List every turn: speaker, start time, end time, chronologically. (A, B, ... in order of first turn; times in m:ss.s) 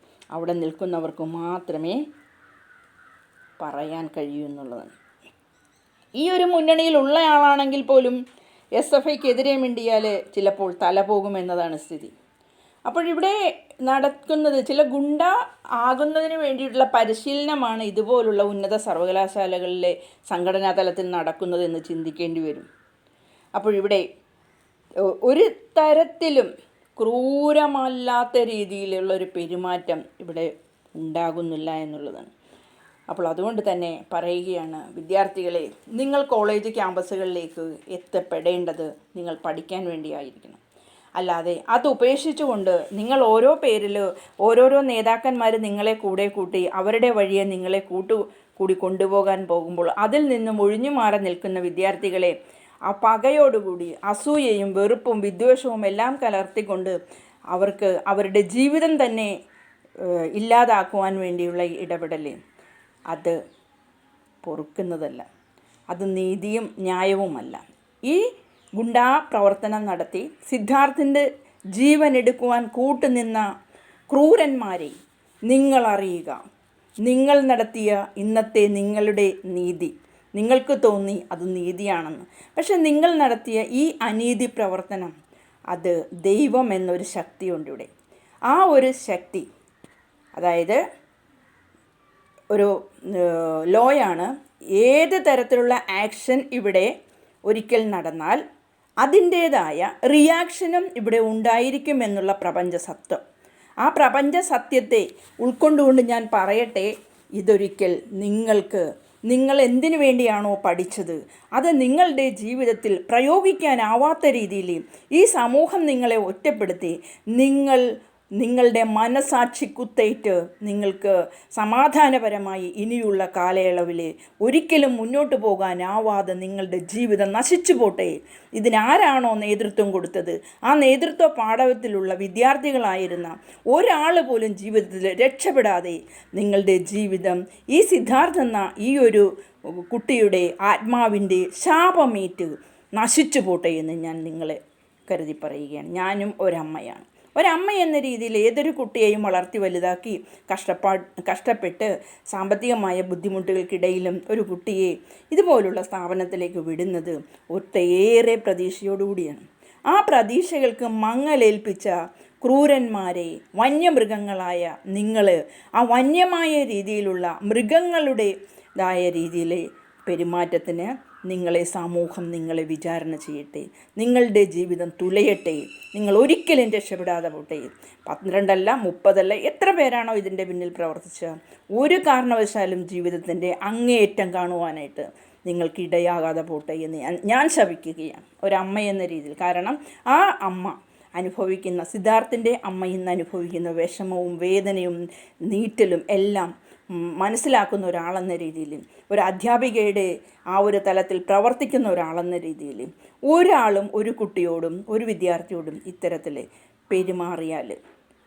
0:00.3-0:02.0 A
0:03.6-0:04.9 A
0:06.2-0:08.2 A
0:08.8-0:12.1 A
0:12.9-0:22.7 A
0:23.6-0:24.0 A
0:25.1-0:32.3 A
0:33.1-0:40.6 A
0:41.2-0:52.4 A
0:52.9-0:57.0 A
0:57.5-0:59.3 A
1:00.0-1:02.4 A
1:03.1-1:03.4 A
1:04.4-1:05.2 A
1:05.9-1:13.5 A
1:14.1-1:14.9 A
1:15.5-1:16.4 A
1:17.0-1:25.2 A
1:25.7-1:27.9 A
1:28.5-1:29.5 A
1:30.4-1:30.8 A
1:32.5-1:36.9 A
1:37.5-1:38.4 A
1:39.0-1:43.2 A
1:43.8-1:57.9 A
1:58.4-3:27.8 A